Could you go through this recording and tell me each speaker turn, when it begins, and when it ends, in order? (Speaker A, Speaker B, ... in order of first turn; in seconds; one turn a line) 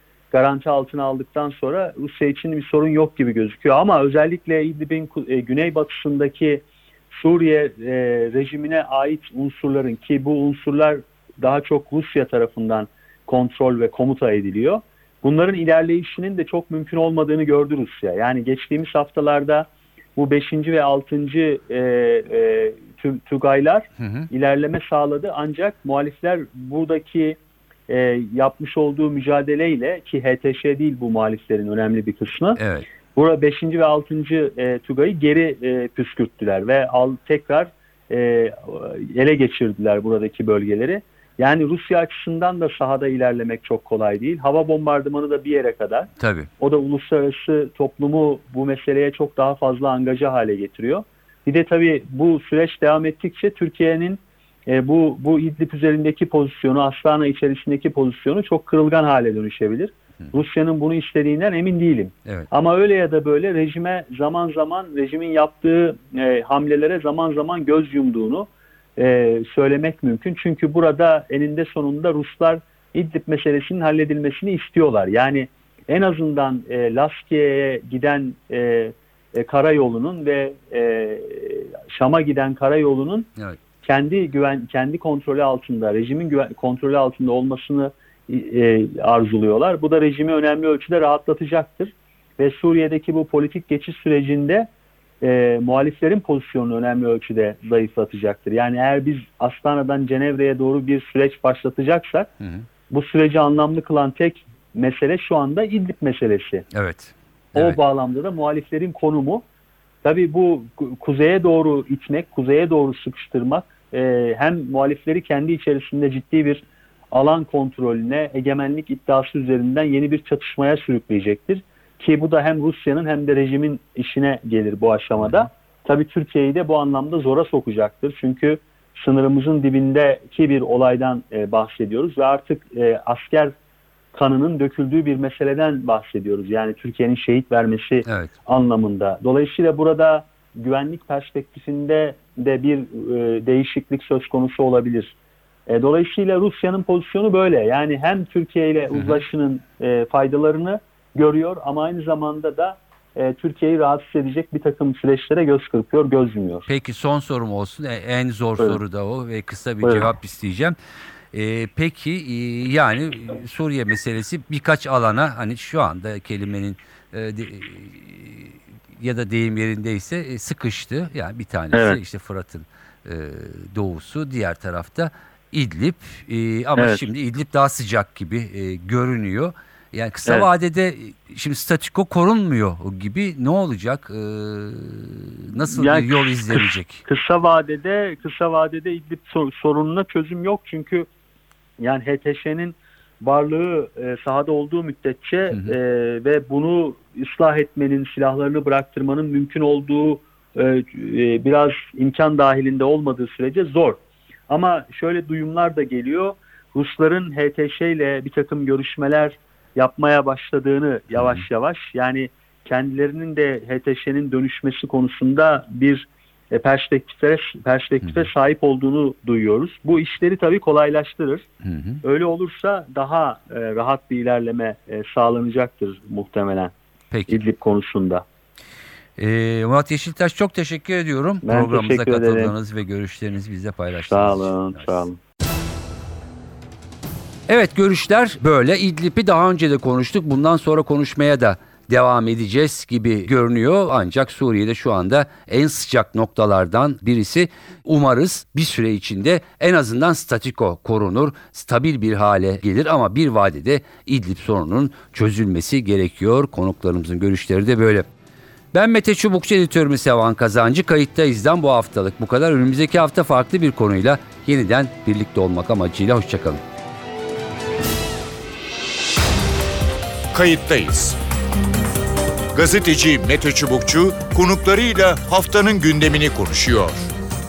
Speaker A: 0.3-32.6
Speaker B: 24.0-24.3
Speaker B: 32.6-32.9
Speaker A: 33.1-83.3
Speaker B: 46.2-46.5
Speaker A: 83.8-94.7
Speaker A: 95.2-102.3
Speaker B: 102.4-102.7
Speaker A: 102.9-106.7
Speaker B: 106.7-107.8
Speaker A: 107.5-109.4
Speaker A: 110.0-133.6
Speaker B: 125.2-125.5
Speaker A: 134.1-145.2
Speaker B: 138.1-138.3
Speaker A: 145.7-156.7
Speaker B: 148.9-149.2
Speaker B: 156.7-160.8
Speaker B: 161.3-187.0
Speaker A: 171.7-172.0
Speaker A: 176.8-177.0
Speaker A: 185.7-191.1
Speaker A: 191.8-221.5
Speaker B: 195.5-195.8
Speaker B: 211.1-211.4
Speaker B: 218.0-218.3
Speaker B: 221.6-222.0
Speaker A: 222.0-226.7
Speaker B: 227.1-227.4
Speaker A: 227.3-228.2
Speaker B: 229.2-235.1
Speaker A: 231.4-232.5
Speaker A: 234.1-235.2
Speaker B: 237.5-258.1
Speaker B: 258.7-266.6
Speaker C: 270.3-271.2
Speaker C: 272.5-277.1